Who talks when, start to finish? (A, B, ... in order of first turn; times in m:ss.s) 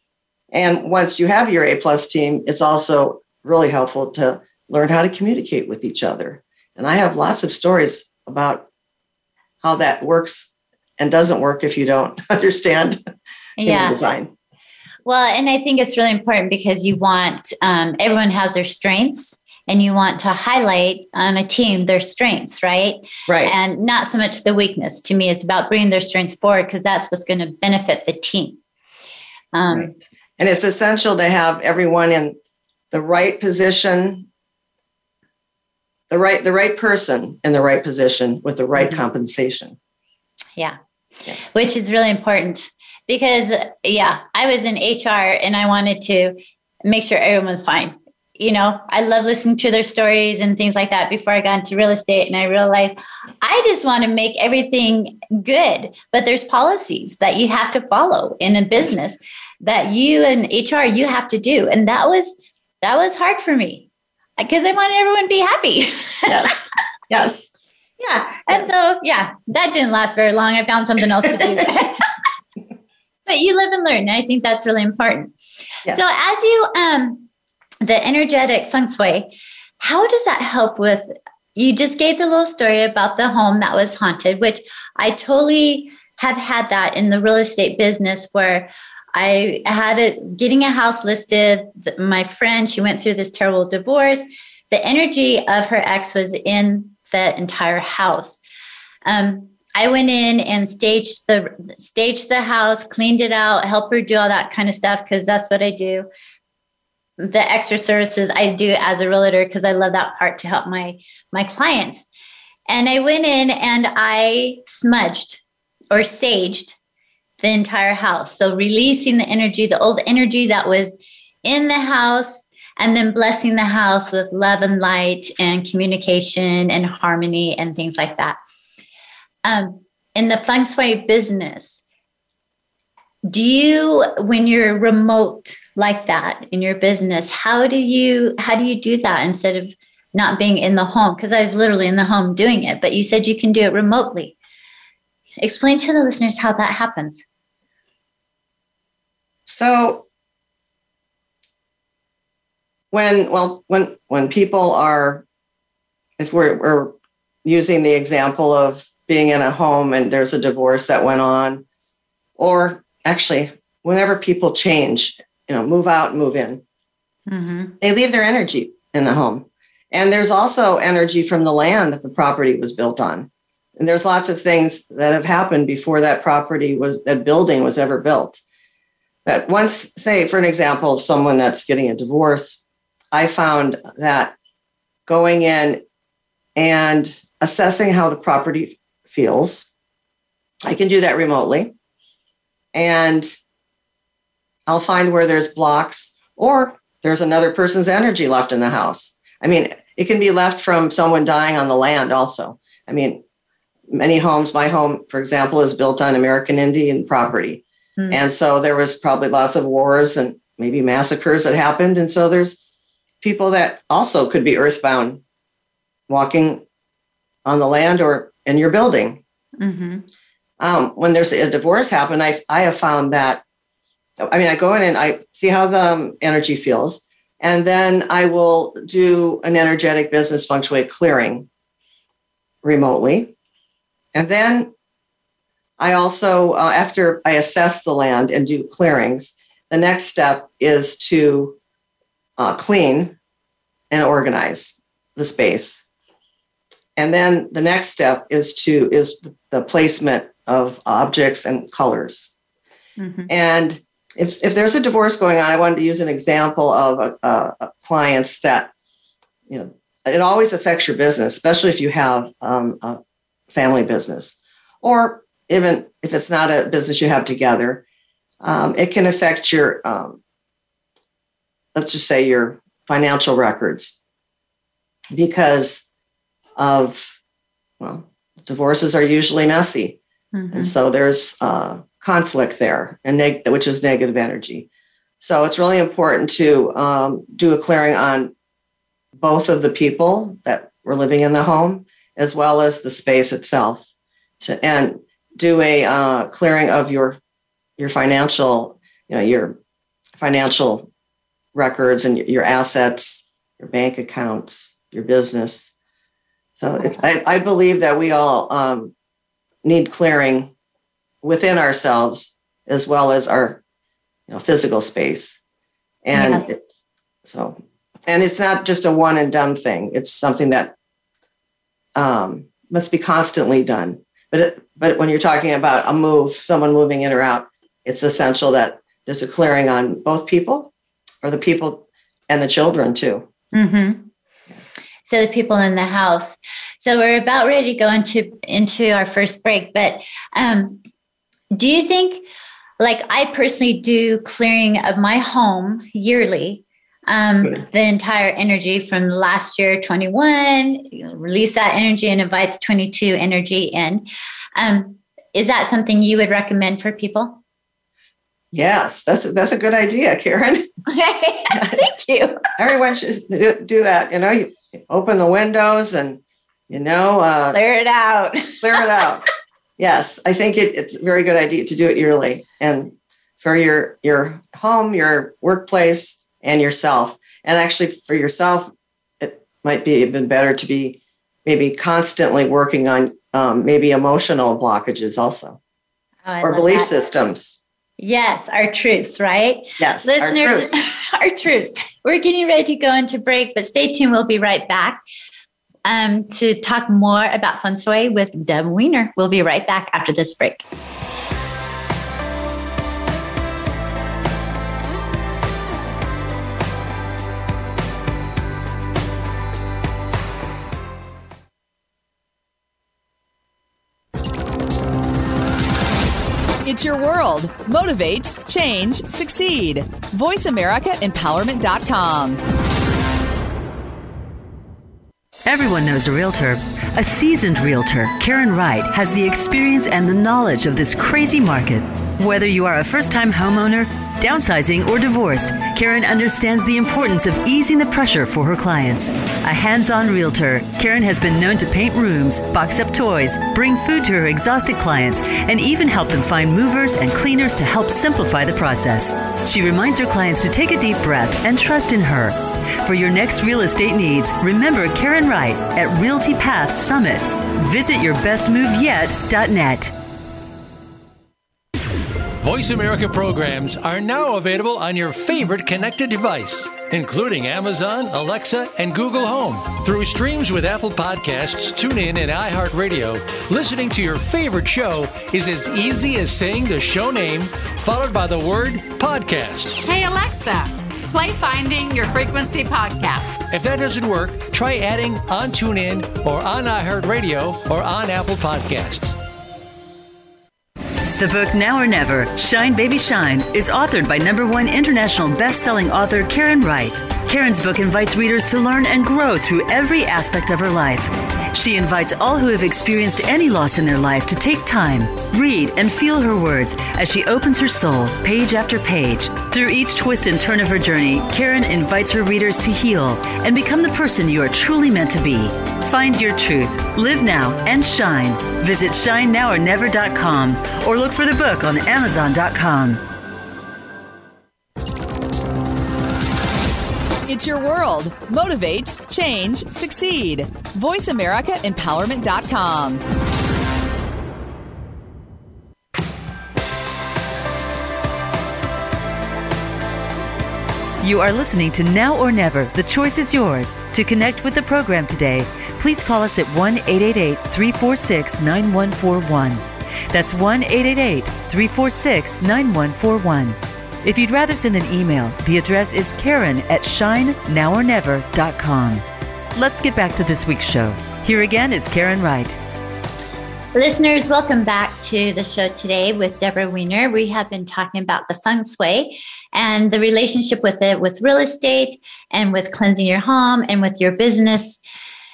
0:00.5-0:08.7 A
0:09.6-0:13.0 A
0:13.6-0:14.0 B
0:13.6-0:14.3 A
0:15.0-0:28.6 B
0:23.3-0:23.6 A
0:29.5-0:29.9 B
0:29.7-0:32.4 A
0:32.9-0:34.3 A
0:36.1-0:39.8 A
0:38.8-0:39.0 B
0:41.5-1:06.5 B
1:06.3-1:07.5 A
1:08.0-1:12.0 B
1:13.3-1:15.3 B
1:15.9-1:17.3 B
1:17.8-1:38.4 B
1:39.1-1:46.1 B
1:47.2-1:52.1 B
1:52.7-1:56.8 B
1:57.4-2:08.4 B
2:09.4-2:11.8 B
2:13.2-2:24.4 B
2:25.4-2:27.2 B
2:29.5-2:30.1 A
2:32.9-2:35.2 A
2:36.2-2:36.9 A
2:37.4-2:41.6 A
2:42.4-2:46.6 A
2:47.3-2:47.7 B
2:47.8-2:58.4 A
2:59.3-3:02.6 A
3:03.1-3:04.4 A
3:05.1-3:05.8 A
3:06.6-3:09.7 A
3:10.6-3:11.7 A
3:12.7-3:13.3 A
3:14.7-3:23.2 A
3:23.9-3:32.6 A
3:33.2-3:35.2 A
3:36.1-3:36.6 A
3:37.4-3:39.2 A
3:39.6-3:40.0 B
3:40.6-3:43.4 A
3:44.2-3:51.5 A
3:52.6-3:53.3 A
3:54.1-3:54.7 A
3:55.8-4:01.6 A
4:02.4-4:03.2 A
4:03.9-4:05.8 A
4:07.0-4:12.3 A
4:13.0-4:13.3 B
4:13.3-4:18.7 A
4:19.5-4:27.8 A
4:28.4-4:30.2 A
4:31.8-4:34.0 A
4:35.1-4:35.9 A
4:36.6-4:37.2 A
4:37.8-4:40.0 A
4:40.3-4:40.7 B
4:40.5-4:44.7 A
4:45.2-4:48.3 A
4:49.1-4:53.8 A
4:54.4-4:57.2 A
4:57.8-4:59.6 A
5:00.2-5:00.9 A
5:01.5-5:05.7 A
5:06.6-5:08.9 A
5:09.6-5:10.5 A
5:11.2-5:13.6 A
5:14.3-5:15.4 A
5:16.0-5:16.6 A
5:16.1-5:16.5 B
5:17.2-5:20.7 A
5:22.0-5:30.7 A
5:31.2-5:33.3 A
5:33.5-5:34.1 B
5:35.0-5:40.8 B
5:41.5-5:42.2 B
5:42.8-5:54.0 B
5:54.6-5:57.4 B
5:58.5-6:00.7 A
6:00.9-6:02.4 B
6:02.6-6:07.6 A
6:07.5-6:09.0 B
6:08.6-6:09.2 A
6:09.8-6:25.6 A
6:26.2-6:26.9 B
6:26.4-6:27.6 A
6:28.0-6:35.0 B
6:29.8-6:30.7 A
6:35.8-6:40.7 B
6:56.6-7:02.4 C
7:05.4-7:39.9 D
7:42.4-7:59.8 E
7:59.8-8:03.5 F
8:03.5-8:09.2 E
8:11.2-8:43.0 D
8:47.3-8:53.0 C
9:01.0-9:19.0 D
9:19.6-9:22.6 D
9:23.7-9:34.8 B